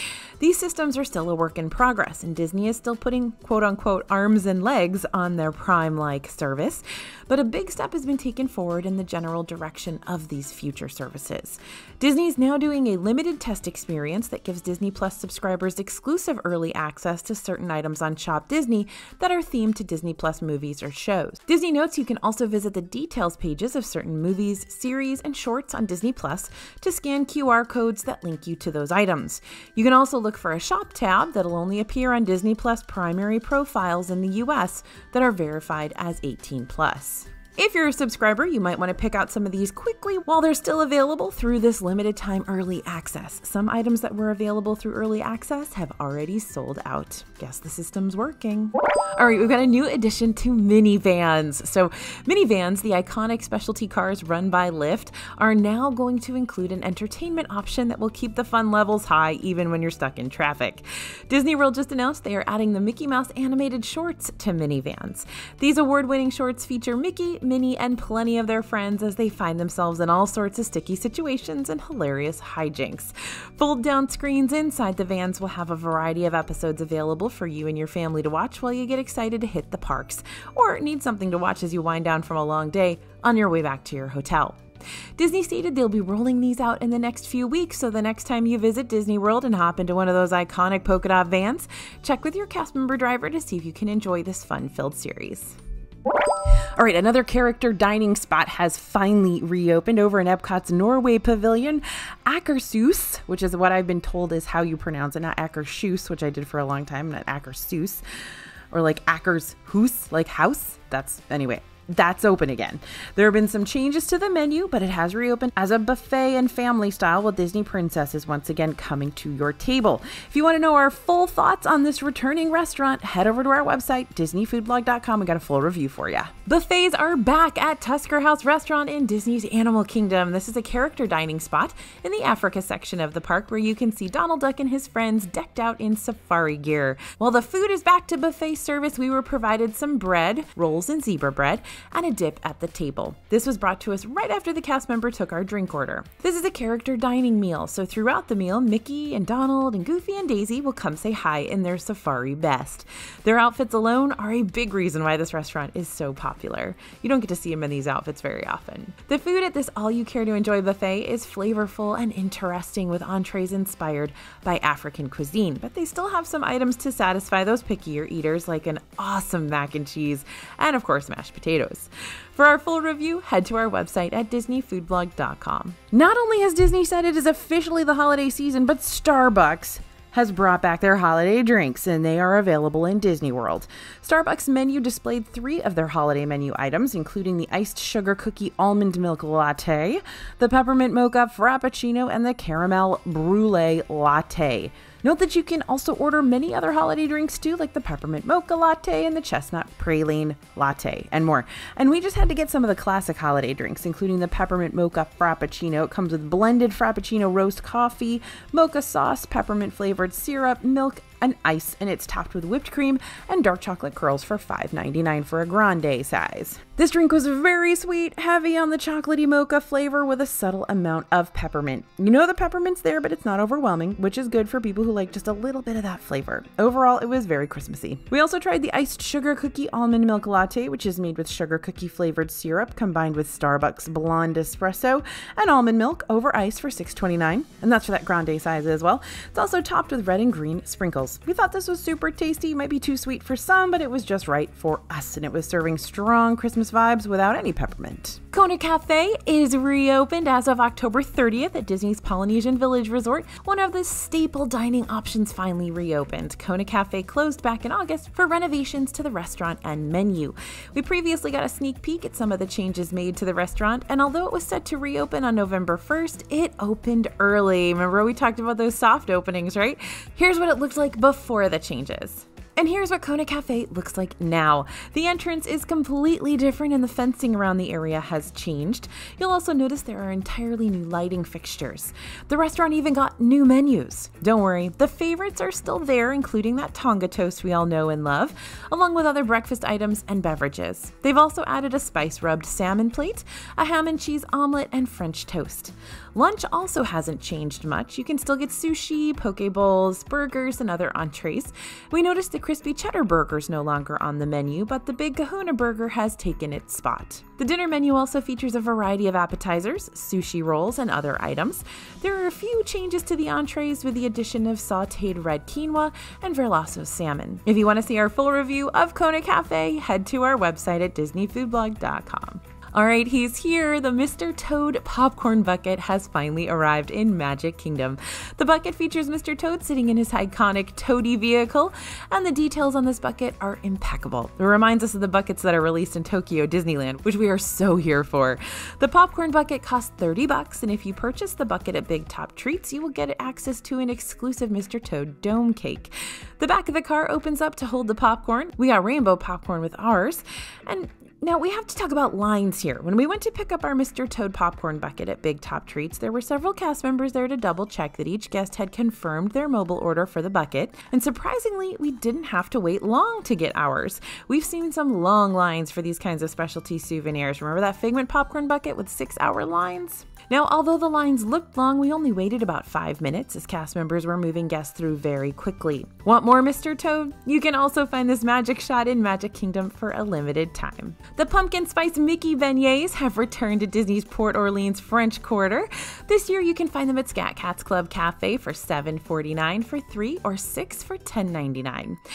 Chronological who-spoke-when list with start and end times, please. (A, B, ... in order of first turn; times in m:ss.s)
0:00.4-1:24.6 A
1:25.2-1:35.6 A
1:36.8-1:48.0 A
1:48.7-6:32.0 A